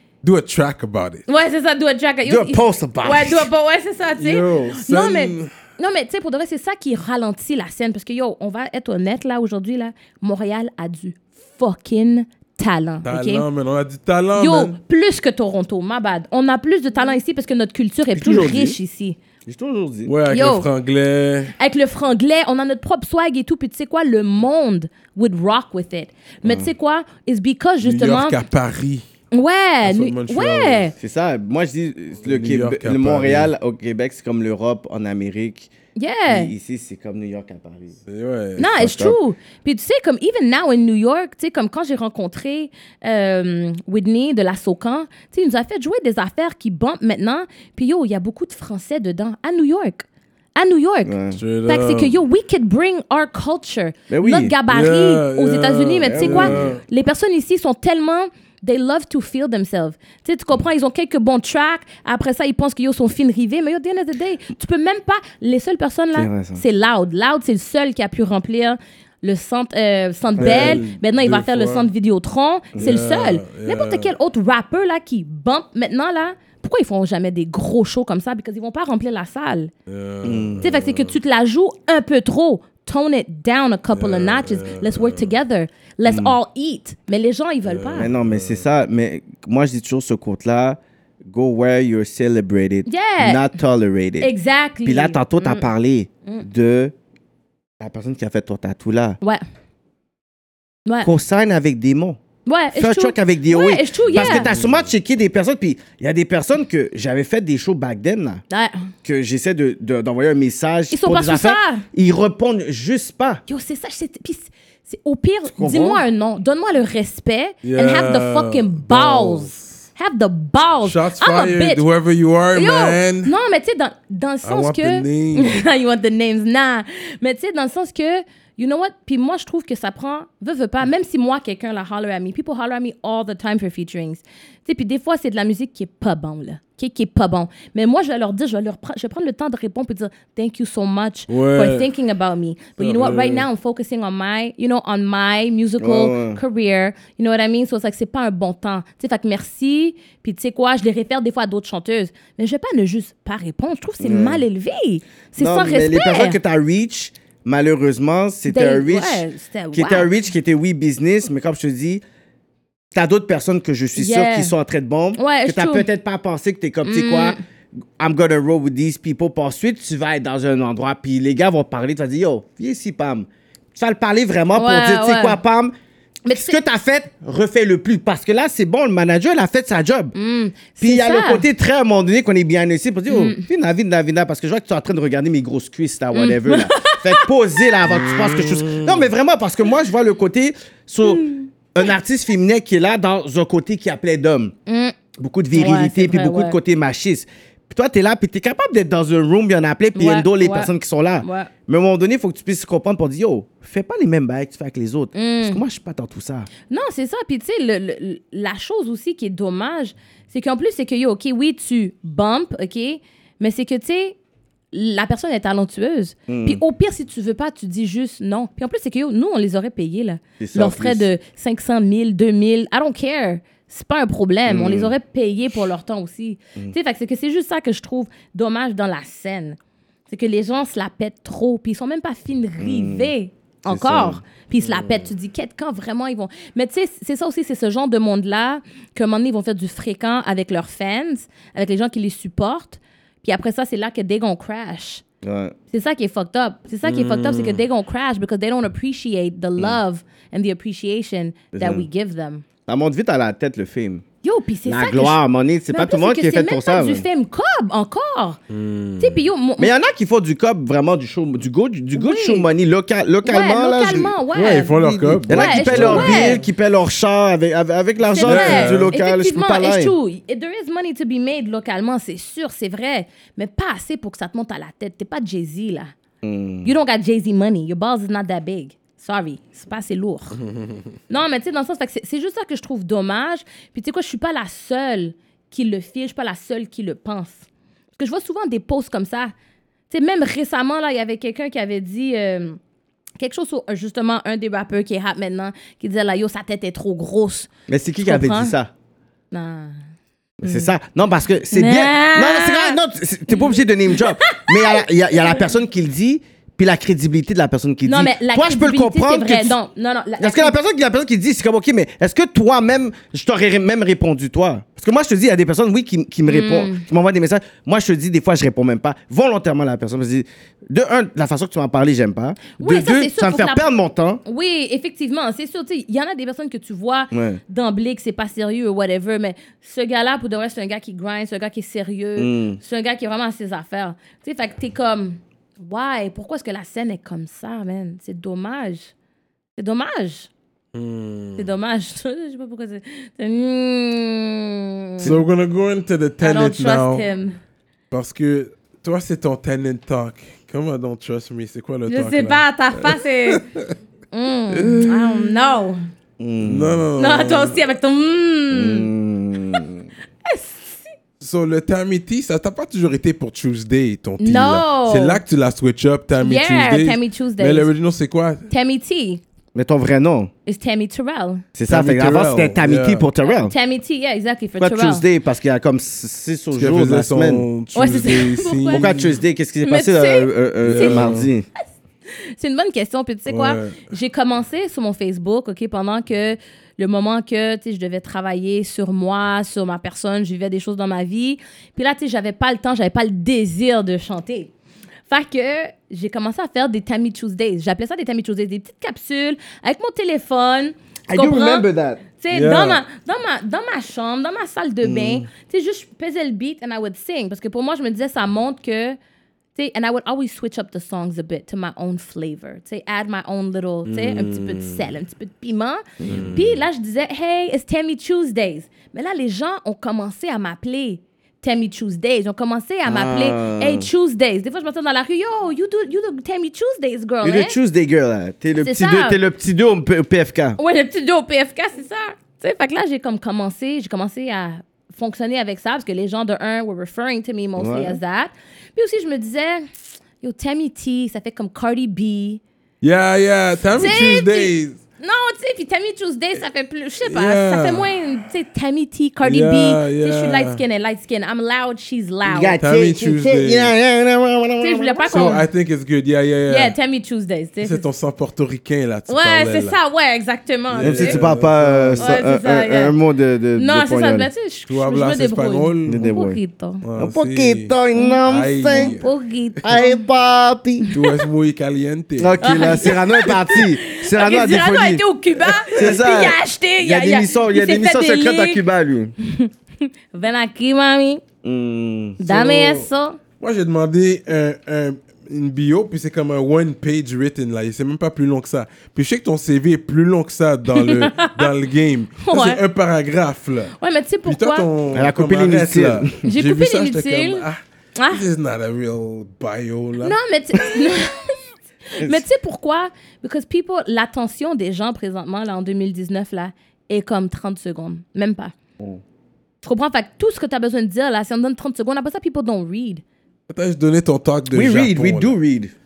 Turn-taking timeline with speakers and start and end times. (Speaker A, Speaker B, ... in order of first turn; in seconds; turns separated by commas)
Speaker A: 0.2-1.2, Speaker B: 1.3-13.4, Speaker C: 2.2-3.5, Speaker A: 4.2-5.5, Speaker A: 13.0-14.8, Speaker B: 14.3-19.2, Speaker C: 18.1-18.8, Speaker C: 19.4-20.1, Speaker A: 20.1-21.5, Speaker B: 20.3-20.7, Speaker B: 21.6-28.4, Speaker C: 26.4-26.7, Speaker A: 27.8-29.0, Speaker B: 29.3-30.9, Speaker A: 29.8-30.9, Speaker C: 31.0-35.7, Speaker A: 32.2-33.5, Speaker B: 35.9-36.5, Speaker C: 36.3-38.0, Speaker A: 38.1-38.8, Speaker B: 38.6-50.0, Speaker C: 38.7-39.2, Speaker B: 50.5-51.1, Speaker C: 51.0-51.4, Speaker A: 51.4-52.1, Speaker B: 51.6-79.7, Speaker C: 54.1-54.5, Speaker A: 54.7-56.8, Speaker C: 56.1-56.8, Speaker C: 66.1-66.6, Speaker C: 70.4-70.8, Speaker A: 70.4-71.9, Speaker C: 72.7-73.0, Speaker A: 72.8-74.1, Speaker A: 79.9-81.2, Speaker C: 80.2-80.7, Speaker B: 80.6-88.1, Speaker A: 83.9-85.3, Speaker C: 86.0-86.3, Speaker A: 87.7-88.6, Speaker C: 88.0-94.3, Speaker B: 92.8-93.5, Speaker B: 94.2-95.7, Speaker C: 94.8-96.9, Speaker C: 97.8-99.2, Speaker C: 101.0-102.2, Speaker B: 102.5-104.5, Speaker C: 102.7-108.4, Speaker A: 104.1-104.7, Speaker B: 108.5-108.9, Speaker C: 109.0-113.4, Speaker B: 110.9-111.8, Speaker B: 113.5-121.8, Speaker C: 115.5-116.0, Speaker A: 117.6-119.8, Speaker A: 120.8-123.3, Speaker B: 122.5-156.4, Speaker A: 124.4-125.6, Speaker A: 141.3-141.9, Speaker A: 142.8-143.5, Speaker C: 145.8-146.4, Speaker C: 154.0-154.4, Speaker C: 155.4-162.0, Speaker B: 158.5-160.1, Speaker C: 162.9-167.3, Speaker B: 163.9-164.5, Speaker B: 165.2-165.8, Speaker B: 166.8-167.4, Speaker C: 168.0-175.7, Speaker B: 174.5-175.4, Speaker B: 176.2-176.6, Speaker C: 176.3-180.1, Speaker B: 180.1-181.4, Speaker C: 180.8-194.5, Speaker B: 183.1-183.4, Speaker B: 186.1-187.6, Speaker A: 187.9-189.0, Speaker B: 191.0-191.5, Speaker B: 194.7-194.9, Speaker C: 195.2-206.5, Speaker B: 195.5-196.6, Speaker B: 199.9-201.5, Speaker B: 205.1-205.6, Speaker B: 206.7-214.2, Speaker B: 214.7-229.6, Speaker C: 216.3-216.6, Speaker C: 220.4-221.1, Speaker C: 224.4-224.9, Speaker B: 230.1-245.0, Speaker C: 232.6-233.1, Speaker C: 233.7-234.2, Speaker A: 234.6-235.1, Speaker C: 245.2-245.5, Speaker B: 245.7-252.4, Speaker A: 246.8-247.6, Speaker C: 251.5-251.8, Speaker C: 252.7-254.0, Speaker B: 254.2-255.2, Speaker C: 254.7-257.1, Speaker B: 255.7-258.4, Speaker A: 258.5-259.2, Speaker B: 259.0-259.7, Speaker C: 259.6-264.1, Speaker B: 261.9-262.5, Speaker B: 263.2-266.4, Speaker A: 264.3-266.4, Speaker C: 264.8-269.9, Speaker B: 268.0-275.9, Speaker A: 268.2-268.9, Speaker C: 276.2-276.7, Speaker B: 276.6-280.4, Speaker B: 281.1-287.4, Speaker B: 288.0-289.3, Speaker B: 289.9-292.6, Speaker B: 293.2-297.5, Speaker C: 297.7-298.7, Speaker B: 298.0-298.5, Speaker B: 299.3-299.8, Speaker B: 300.4-300.7, Speaker C: 300.4-309.6, Speaker B: 301.5-305.4, Speaker B: 307.8-310.6, Speaker C: 310.2-324.2, Speaker B: 316.3-316.8, Speaker B: 322.6-323.6, Speaker B: 324.2-338.9, Speaker C: 327.1-327.4, Speaker C: 332.2-332.6, Speaker B: 339.6-340.3, Speaker A: 340.7-341.5, Speaker B: 341.4-345.1, Speaker A: 345.0-347.1, Speaker B: 346.2-347.4, Speaker A: 347.9-353.7, Speaker B: 351.9-353.4, Speaker B: 354.1-355.8, Speaker A: 354.5-355.3, Speaker C: 356.2-356.8, Speaker A: 356.4-357.6, Speaker B: 357.0-358.9, Speaker C: 358.5-359.9, Speaker B: 360.2-360.9, Speaker A: 361.2-368.5, Speaker B: 364.2-365.2, Speaker B: 366.2-367.7, Speaker B: 368.5-369.2, Speaker C: 369.5-370.3, Speaker B: 370.4-371.4, Speaker C: 371.5-373.5, Speaker A: 371.7-373.1, Speaker B: 373.2-375.0, Speaker C: 374.6-377.4, Speaker A: 376.5-379.2, Speaker B: 377.7-378.9, Speaker C: 378.7-381.4, Speaker B: 379.6-381.2, Speaker A: 380.6-381.3, Speaker B: 382.4-394.5, Speaker A: 383.3-383.9, Speaker B: 395.1-401.6, Speaker C: 401.1-402.0, Speaker B: 402.2-409.0, Speaker A: 402.3-402.8, Speaker C: 404.8-405.2, Speaker B: 409.5-427.6, Speaker A: 413.9-414.9, Speaker C: 416.0-416.3, Speaker A: 416.1-416.6, Speaker C: 422.9-423.9, Speaker C: 427.2-430.6, Speaker B: 428.6-429.2, Speaker B: 430.6-439.7, Speaker C: 437.6-438.0, Speaker B: 440.2-442.4, Speaker A: 442.8-444.8, Speaker B: 443.7-452.6, Speaker A: 447.0-447.9, Speaker A: 449.2-450.6, Speaker C: 452.2-455.4, Speaker A: 452.6-453.7, Speaker B: 454.6-455.4, Speaker A: 455.1-456.7, Speaker B: 456.5-457.8, Speaker A: 457.6-459.8, Speaker B: 459.1-461.2, Speaker A: 460.7-462.1, Speaker C: 460.8-464.3, Speaker B: 462.0-462.9, Speaker B: 463.6-466.8, Speaker A: 464.7-466.0, Speaker C: 465.8-466.4, Speaker A: 466.8-469.1, Speaker C: 467.0-469.0, Speaker B: 467.9-470.0, Speaker C: 469.6-470.9, Speaker B: 470.8-471.2, Speaker A: 470.9-472.9, Speaker C: 472.2-475.0, Speaker B: 472.4-478.6, Speaker A: 475.5-475.9, Speaker C: 475.7-479.1, Speaker B: 479.2-481.2, Speaker C: 481.4-482.2, Speaker B: 482.2-483.2, Speaker A: 482.2-482.9, Speaker A: 483.4-493.7, Speaker B: 490.7-491.5, Speaker B: 492.2-492.6, Speaker B: 493.8-494.7, Speaker A: 494.2-497.6, Speaker C: 494.9-496.2, Speaker B: 496.2-497.4, Speaker B: 498.0-498.2, Speaker A: 498.1-500.1, Speaker B: 500.0-508.5, Speaker B: 509.6-513.0, Speaker A: 513.5-515.4, Speaker C: 514.5-515.7